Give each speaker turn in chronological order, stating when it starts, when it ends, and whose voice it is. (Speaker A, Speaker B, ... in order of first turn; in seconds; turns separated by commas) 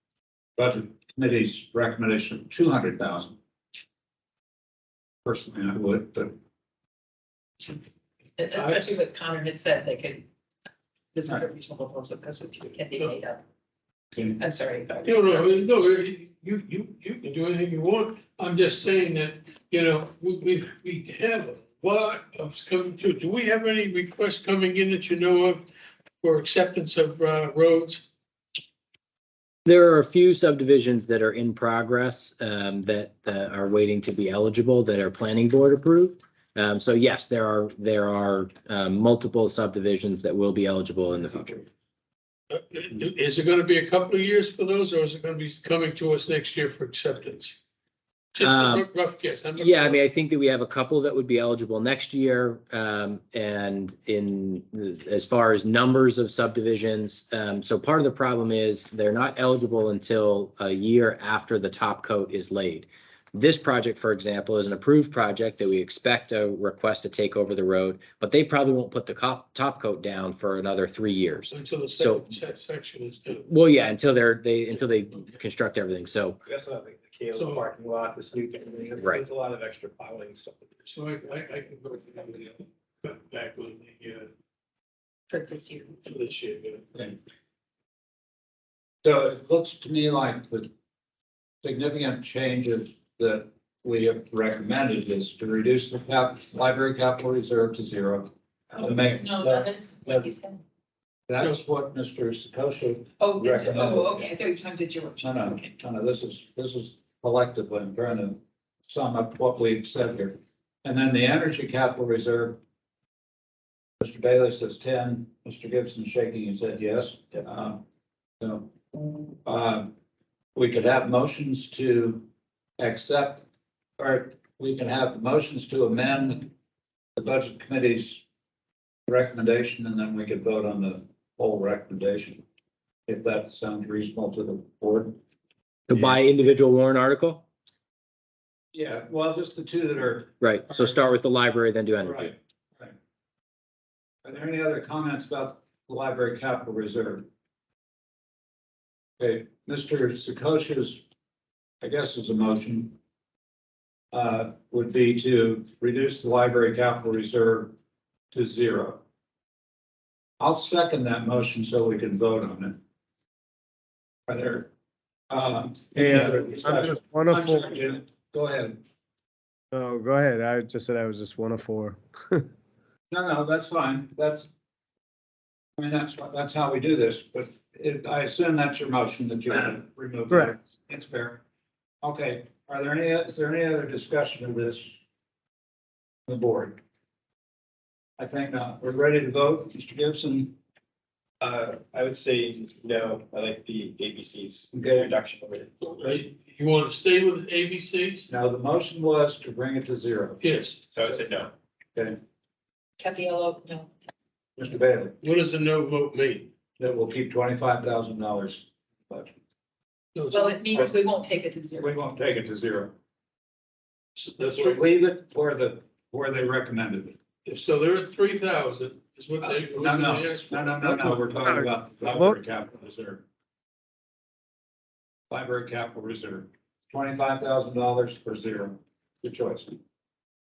Speaker A: 0.6-3.4, Speaker A: 5.2-6.3, Speaker B: 8.4-10.2, Speaker C: 8.6-8.9, Speaker B: 11.1-13.4, Speaker B: 14.4-15.3, Speaker C: 15.0-25.6, Speaker C: 26.2-28.0, Speaker D: 29.7-41.7, Speaker C: 42.5-47.6, Speaker C: 48.3-50.0, Speaker D: 48.4-48.9, Speaker D: 49.6-72.3, Speaker C: 71.5-73.5, Speaker D: 73.5-76.4, Speaker E: 76.5-81.0, Speaker C: 77.3-77.7, Speaker D: 79.0-79.2, Speaker C: 80.9-84.3, Speaker B: 85.3-85.9, Speaker C: 86.0-86.8, Speaker A: 89.0-90.7, Speaker A: 91.6-100.3, Speaker B: 98.8-100.6, Speaker A: 101.3-104.3, Speaker B: 103.2-105.7, Speaker A: 105.2-112.6, Speaker A: 114.0-117.8, Speaker A: 118.4-119.9, Speaker A: 120.5-122.2, Speaker A: 122.8-123.4, Speaker A: 124.0-126.5, Speaker A: 127.2-128.2, Speaker A: 129.1-132.4, Speaker A: 133.1-135.2, Speaker D: 135.9-137.4, Speaker A: 138.7-141.0, Speaker D: 140.4-142.3, Speaker A: 142.0-142.9, Speaker A: 144.2-147.3, Speaker A: 149.2-151.0, Speaker A: 151.8-152.9, Speaker A: 154.1-157.7, Speaker A: 158.3-159.0, Speaker A: 160.4-162.8, Speaker A: 164.3-164.7, Speaker A: 165.3-168.8, Speaker F: 166.0-167.8, Speaker F: 169.7-172.4, Speaker A: 173.1-174.5, Speaker A: 175.8-181.4, Speaker F: 180.3-180.6, Speaker A: 182.0-184.9, Speaker A: 186.3-186.8, Speaker A: 188.2-190.5, Speaker E: 191.4-195.8, Speaker A: 194.7-195.1, Speaker C: 195.8-198.3, Speaker A: 198.3-200.4, Speaker C: 200.4-200.8, Speaker E: 200.9-201.5, Speaker B: 203.0-203.9, Speaker A: 204.6-205.2, Speaker C: 205.2-206.5, Speaker A: 206.8-209.3, Speaker C: 210.2-210.6, Speaker B: 210.3-211.9, Speaker A: 211.8-212.9, Speaker C: 214.2-214.8, Speaker A: 214.4-217.2, Speaker C: 217.4-220.9, Speaker A: 219.4-223.2, Speaker F: 220.8-222.3, Speaker A: 225.3-229.8